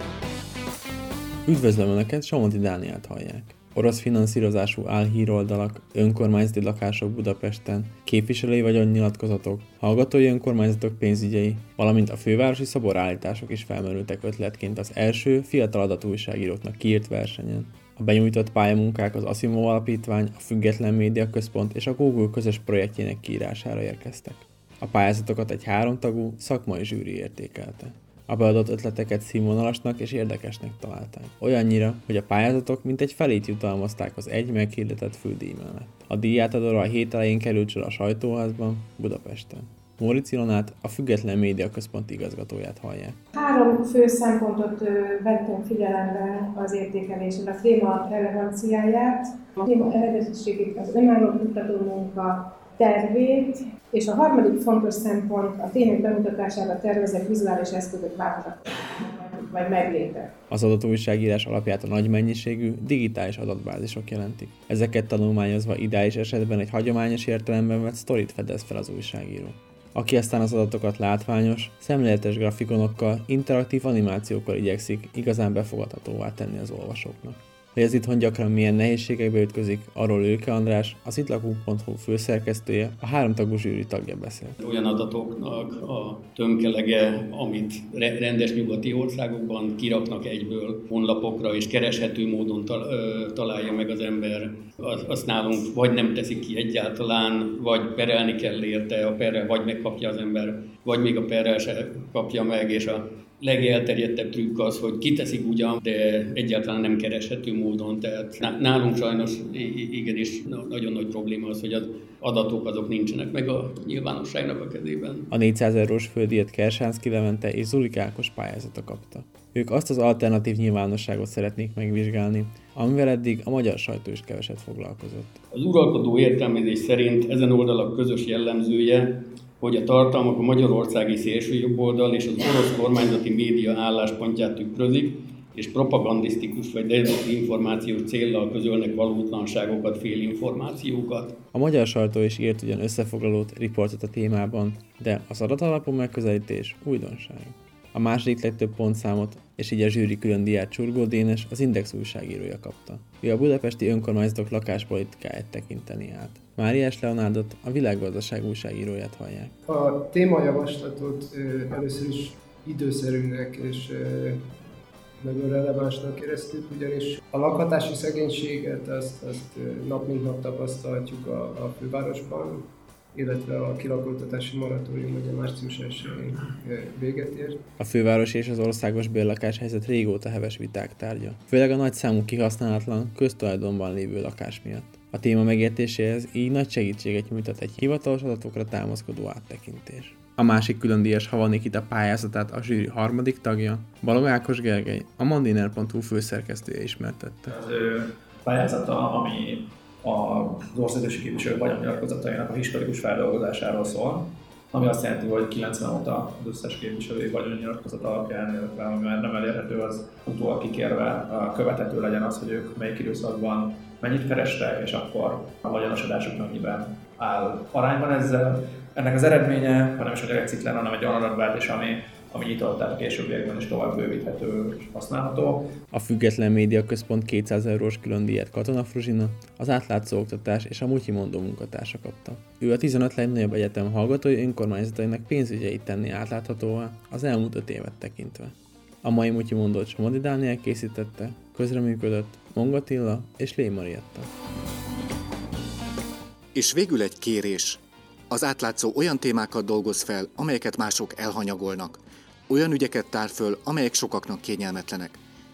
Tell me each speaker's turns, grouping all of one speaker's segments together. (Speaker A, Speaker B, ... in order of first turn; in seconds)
Speaker A: 1.5-43.2, 60.5-84.6, 115.3-125.4, 141.5-159.5, 177.8-197.5, 225.9-244.3
Speaker B: 43.4-60.3
Speaker C: 84.6-115.3, 125.5-141.4
Speaker D: 159.7-164.4, 165.2-172.6, 173.2-177.6
Speaker E: 197.5-225.6
Speaker F: 246.5-255.2